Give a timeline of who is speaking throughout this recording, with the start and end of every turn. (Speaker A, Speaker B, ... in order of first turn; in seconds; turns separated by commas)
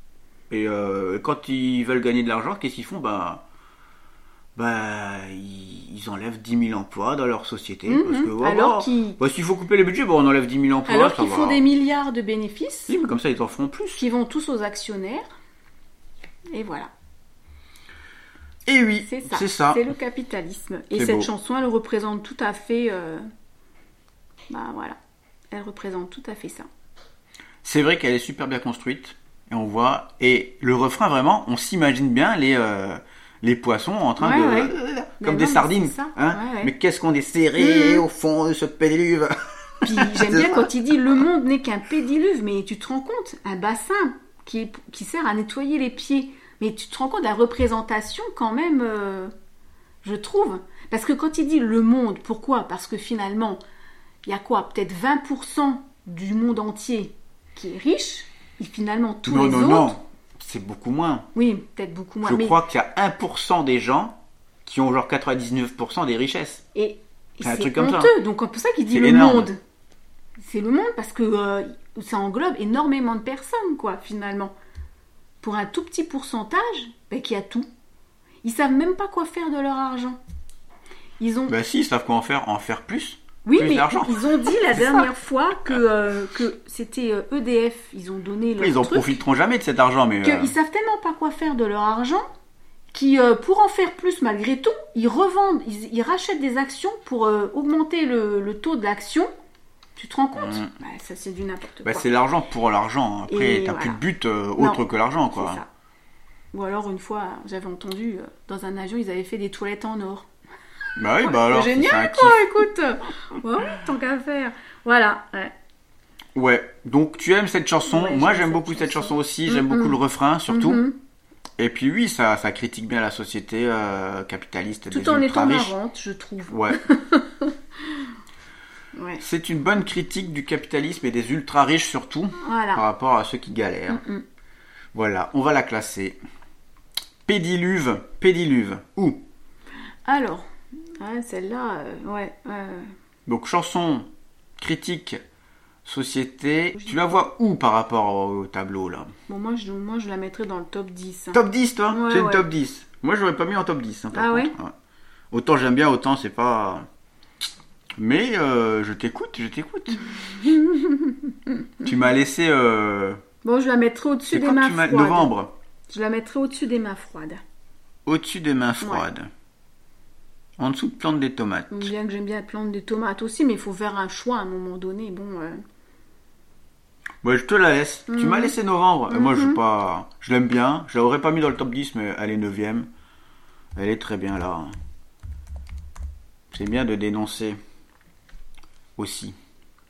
Speaker A: 0.5-3.4, Speaker A: 4.5-11.6, Speaker B: 7.9-9.2, Speaker B: 10.9-12.9, Speaker A: 12.9-14.0, Speaker B: 14.0-15.3, Speaker B: 16.5-16.9, Speaker A: 18.6-19.9, Speaker B: 19.1-23.2, Speaker A: 20.9-21.3, Speaker B: 24.5-25.0, Speaker B: 25.5-26.7, Speaker A: 27.6-40.7, Speaker B: 34.2-36.7, Speaker B: 37.6-38.0, Speaker B: 39.8-49.3, Speaker B: 50.0-53.6, Speaker B: 54.2-59.9, Speaker A: 59.2-61.3, Speaker B: 61.3-62.6, Speaker A: 62.2-66.6, Speaker B: 66.7-69.6, Speaker A: 67.4-68.1, Speaker A: 68.9-69.5, Speaker B: 70.4-74.5, Speaker B: 75.4-77.7, Speaker B: 78.4-80.2, Speaker B: 81.2-81.5, Speaker A: 81.5-85.1, Speaker B: 83.4-89.2, Speaker A: 88.6-90.5, Speaker B: 90.2-92.2, Speaker B: 92.9-99.3, Speaker B: 100.0-102.1, Speaker A: 100.3-100.7, Speaker A: 101.8-105.6, Speaker B: 103.3-104.0, Speaker B: 104.6-105.7, Speaker B: 106.5-110.3, Speaker A: 111.0-112.6, Speaker B: 111.2-115.5, Speaker A: 116.3-120.8, Speaker B: 117.9-120.0, Speaker B: 120.5-121.0, Speaker A: 121.6-125.7, Speaker B: 124.9-128.1, Speaker A: 126.5-126.8, Speaker B: 128.9-129.2, Speaker A: 129.2-134.0, Speaker B: 132.4-132.8, Speaker B: 133.9-134.2, Speaker A: 134.9-136.2, Speaker A: 137.2-139.2, Speaker B: 140.0-142.9, Speaker A: 143.2-145.2, Speaker A: 145.8-149.1, Speaker B: 149.3-151.4, Speaker A: 151.3-154.7, Speaker B: 151.9-152.4, Speaker B: 154.1-154.5, Speaker A: 155.3-156.8, Speaker A: 158.0-160.2, Speaker B: 160.4-161.7, Speaker A: 161.8-163.2, Speaker B: 163.4-165.3, Speaker A: 164.3-165.5, Speaker B: 165.9-167.4, Speaker A: 168.1-169.3, Speaker B: 168.8-169.1, Speaker A: 170.6-171.9, Speaker B: 171.7-175.6, Speaker A: 177.2-182.9, Speaker B: 178.1-178.5, Speaker B: 179.1-179.6, Speaker A: 183.8-184.7, Speaker A: 186.5-187.6, Speaker A: 189.0-189.3